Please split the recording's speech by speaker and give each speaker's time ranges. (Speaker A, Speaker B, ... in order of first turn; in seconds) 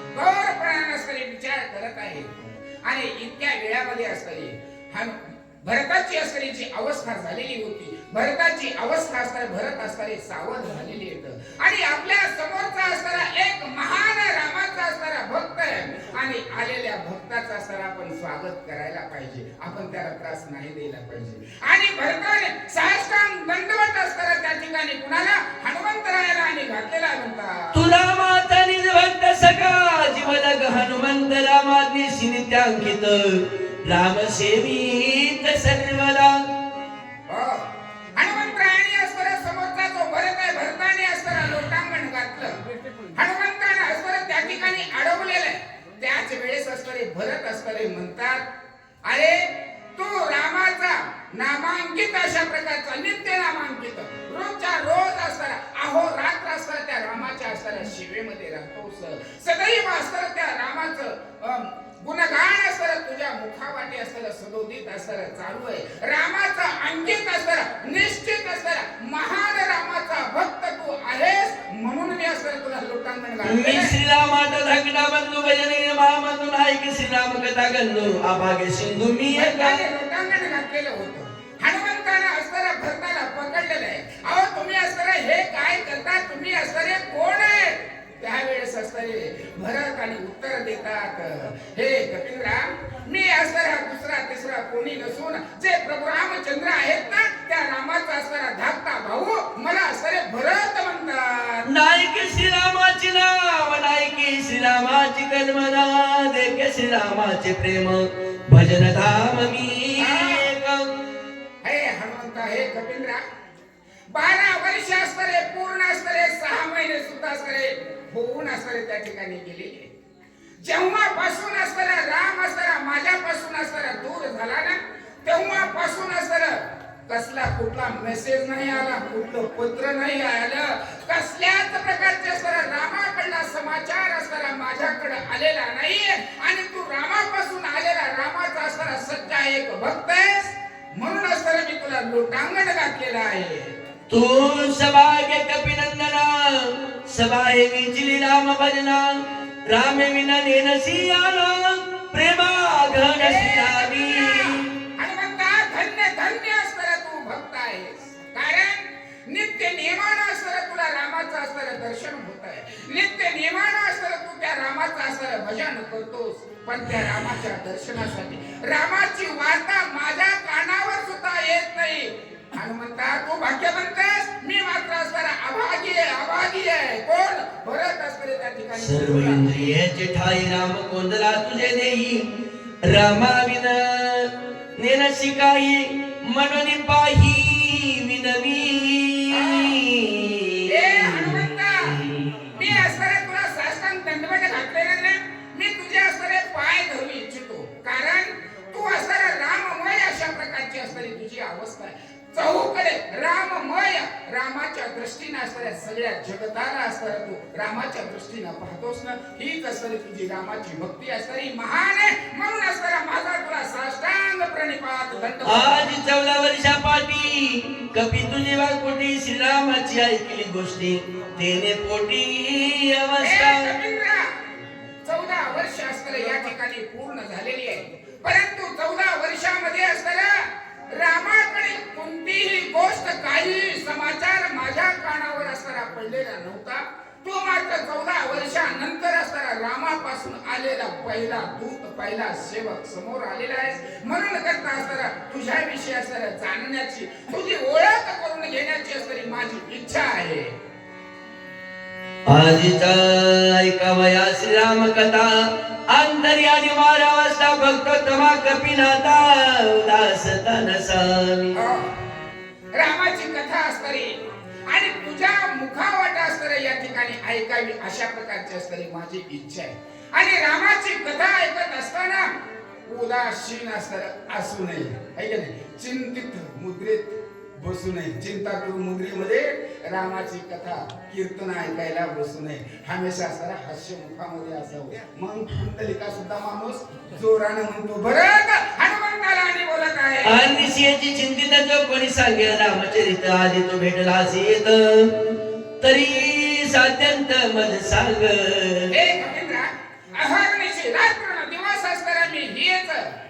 Speaker A: 0.1-27.8, 37.3-37.6, 38.2-42.6, 43.1-48.4, 49.1-49.4, 50.0-74.0, 79.3-101.7, 110.0-110.5, 111.6-113.2, 114.1-119.9, 120.6-143.7, 153.2-179.6, 189.3-189.8, 190.7-192.0, 192.6-215.9, 223.2-224.3, 225.1-250.5, 261.6-261.9, 262.8-264.2, 264.7-272.3, 272.9-290.6, 298.9-303.1
Speaker B: 27.7-36.4, 73.4-79.8, 101.7-110.9, 144.1-154.8, 178.7-182.3, 182.8-192.8, 215.4-223.7, 252.3-261.6, 290.2-295.2, 295.8-298.9